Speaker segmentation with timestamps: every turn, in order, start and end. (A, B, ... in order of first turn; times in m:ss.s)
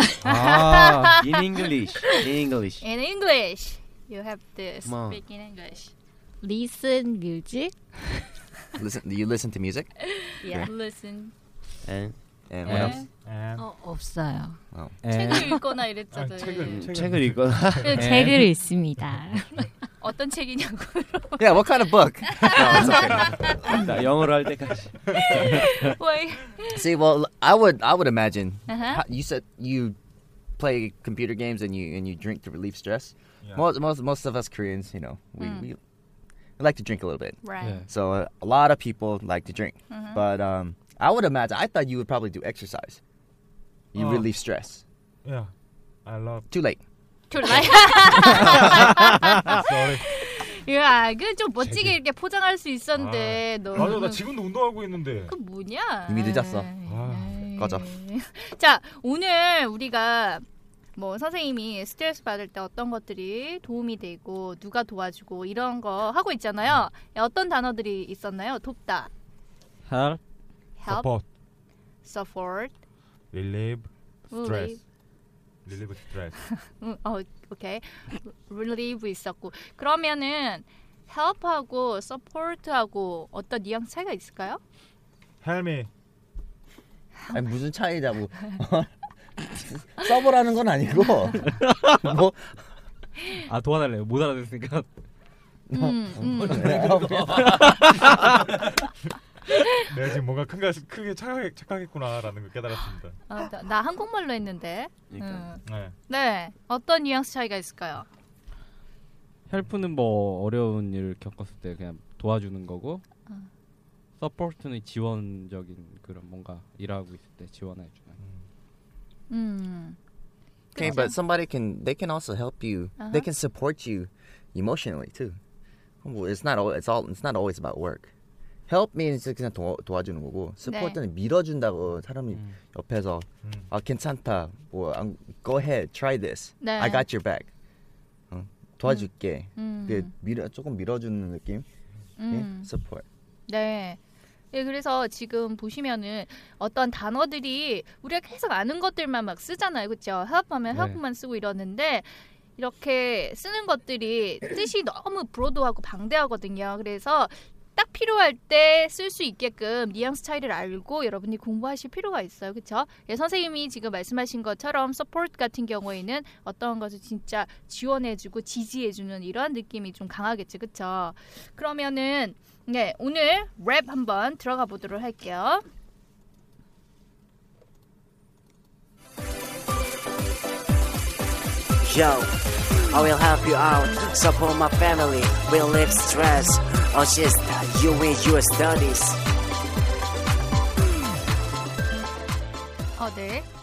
0:00.2-0:01.2 A
0:00.3-0:01.2 B
0:01.2-0:02.8 C
0:02.8-0:05.9 B
0:04.8-0:05.2 C
0:06.4-0:08.3 D
0:08.8-0:10.7 E
0:10.2-0:11.3 B
0:11.8-0:12.2 C
0:12.5-0:13.0 E
0:12.6-0:13.0 A
0:12.7-0:13.0 B
0:13.2-0:13.7 F
0:13.6-0:14.6 D
0:14.7-0:15.0 E
0:15.0-0:15.6 A
0:15.1-0:16.8 B
0:16.1-0:18.0 F
0:16.6-0:18.2 C
0:17.9-0:18.4 A
0:17.9-0:19.7 D
0:20.0-0:23.8 B
0:21.4-0:23.5 E
0:23.7-0:25.6 C
0:25.3-0:26.8 B
0:26.7-0:30.0 E
0:28.7-0:29.0 B
0:30.6-0:35.8 E
0:35.4-0:35.7 B
0:36.6-0:43.0 E
0:37.4-0:37.8 B
0:37.6-0:37.9 A
0:39.9-0:40.2 B
0:43.9-0:44.8 E
0:44.0-0:44.3 F
0:45.2-0:45.5 F
0:46.0-0:46.5 F
0:46.5-0:46.8 E
0:47.3-0:54.3 B
0:48.3-0:50.0 F
0:51.6-0:52.0 F
0:53.0-0:55.3 F
0:55.2-1:09.1 B
0:56.1-0:56.7 E
0:56.8-0:57.5 F
0:57.6-0:57.9 E
1:09.8-1:10.2 A
1:10.8-1:11.1 B
1:10.8-1:11.2 F
1:12.0-1:12.7 B
1:13.3-1:14.8 F
1:14.3-1:14.8 B
1:15.6-1:16.4 F
1:16.4-1:24.6 B
1:25.4-1:25.9 F
1:27.3-1:32.6 E
1:31.6-1:32.0 A
1:33.3-1:34.9 A
1:35.7-1:37.5 E
1:35.7-1:36.8 B
1:36.6-1:37.8 C
1:37.1-1:38.3 A
1:39.8-1:43.1 F
1:43.3-1:48.1 B
1:45.1-1:45.5 C
1:45.6-1:45.9 F
1:49.5-1:53.0 A
1:54.2-1:58.2 A
1:59.3-2:00.0 B
2:00.7-2:01.2 B
2:00.8-2:05.4 E
2:03.0-2:03.3 B
2:06.0-2:08.1 E
2:08.7-2:17.5 E
2:10.6-2:11.0 B
2:16.6-2:17.0 B
2:18.3-2:21.6 E
2:18.8-2:20.1 B
2:22.2-2:22.7 B
2:22.3-2:23.0 E
2:23.5-2:24.0 B
2:24.5-2:55.6 B
2:30.7-2:31.0 A
3:01.8-3:09.2 G
3:13.0-3:13.4 B